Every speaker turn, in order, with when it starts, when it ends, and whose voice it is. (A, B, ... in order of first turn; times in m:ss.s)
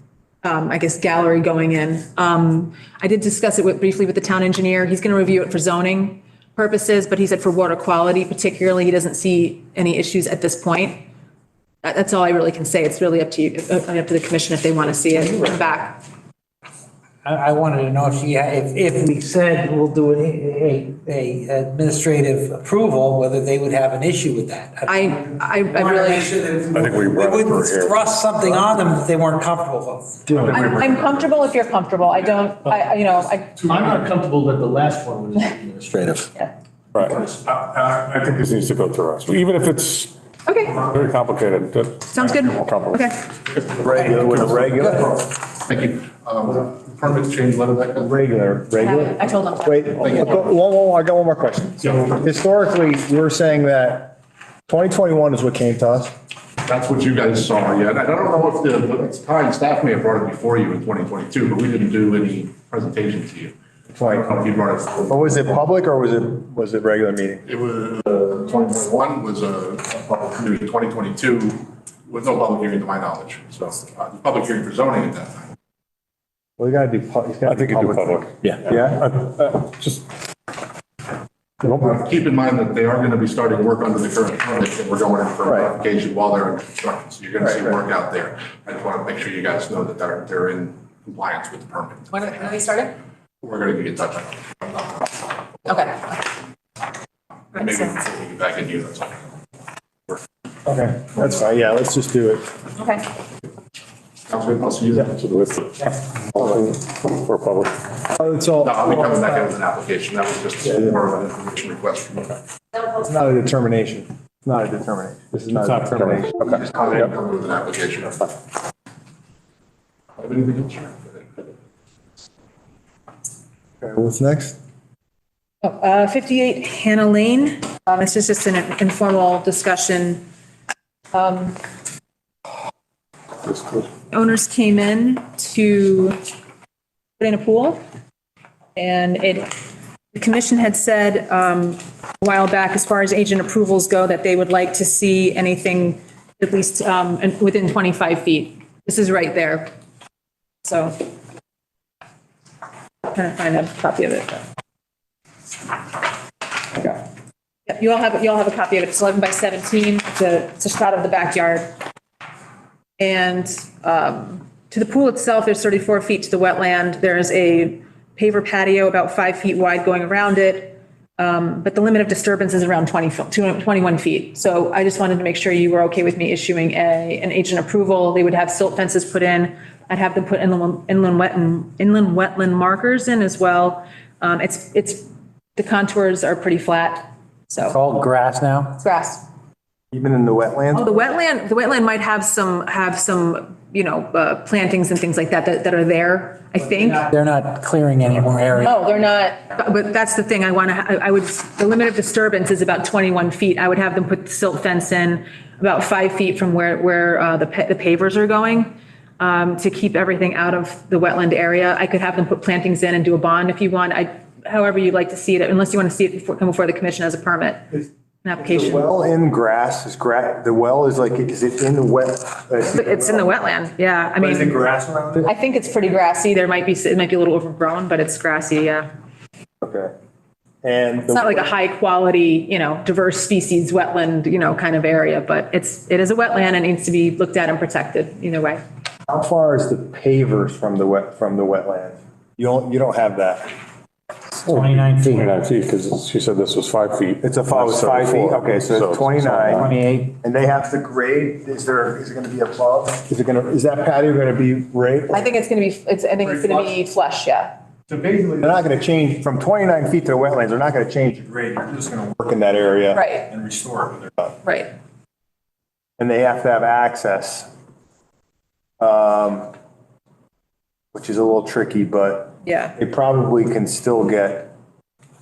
0:00.4-0:11.0 A
0:11.8-0:16.0 A
0:17.2-0:25.2 B
0:24.9-0:26.4 A
0:25.7-0:30.5 B
0:26.7-0:28.0 C
0:30.4-0:31.3 C
0:30.5-0:34.0 A
0:33.9-0:36.3 D
0:36.9-0:40.2 C
0:40.4-0:40.9 A
0:40.8-0:43.1 C
0:42.1-0:43.2 A
0:43.7-0:45.2 E
0:45.6-0:48.1 F
0:48.0-0:56.1 E
0:48.8-0:50.2 A
0:50.0-0:50.4 F
0:56.6-1:05.2 F
1:04.0-1:04.4 E
1:05.1-1:07.4 E
1:07.4-1:15.5 F
1:16.6-1:19.0 E
1:17.4-1:20.0 C
1:21.6-1:32.4 F
1:32.1-1:33.0 A
1:33.4-1:35.2 F
1:35.6-1:36.2 A
1:37.5-1:37.9 A
1:37.6-1:39.2 F
1:40.6-1:42.5 E
1:42.8-1:43.0 A
1:44.3-1:45.2 F
1:45.1-1:47.8 C
1:48.2-1:48.9 E
1:48.6-1:52.4 F
1:52.9-1:56.6 E
1:55.5-1:56.6 C
1:56.5-1:58.3 F
2:00.2-2:01.3 F
2:03.8-2:04.6 E
2:05.6-2:10.2 A
2:11.1-2:11.6 A
2:13.5-2:13.8 C
2:14.1-2:16.2 A
2:17.2-2:17.8 A
2:18.8-2:19.5 A
2:20.1-2:29.7 A
2:30.6-2:31.0 A
2:33.1-2:34.4 A
2:36.7-2:37.0 A
2:37.7-2:41.7 A
2:43.0-3:07.8 A
3:07.6-3:08.8 B
3:08.8-3:09.2 A
3:09.9-3:10.9 E
3:10.7-3:17.1 A
3:16.8-3:18.8 B
3:18.6-3:37.7 A
3:38.2-3:38.8 A
3:38.4-3:43.3 E
3:42.7-3:44.6 A
3:44.2-3:45.3 E
3:45.2-3:48.9 A
3:49.6-3:49.9 E
3:50.6-3:51.5 E
3:51.1-3:58.6 A
3:59.1-4:03.5 E
4:04.4-4:09.7 C
4:04.4-4:05.3 B
4:07.2-4:15.2 E
4:09.5-4:10.1 B
4:15.1-4:17.5 A
4:16.2-4:16.7 E
4:17.9-4:24.3 E
4:22.9-4:23.3 A
4:24.4-4:24.7 A
4:26.0-4:27.5 E
4:28.8-4:29.5 E
4:30.9-4:34.5 E
4:32.4-4:32.8 A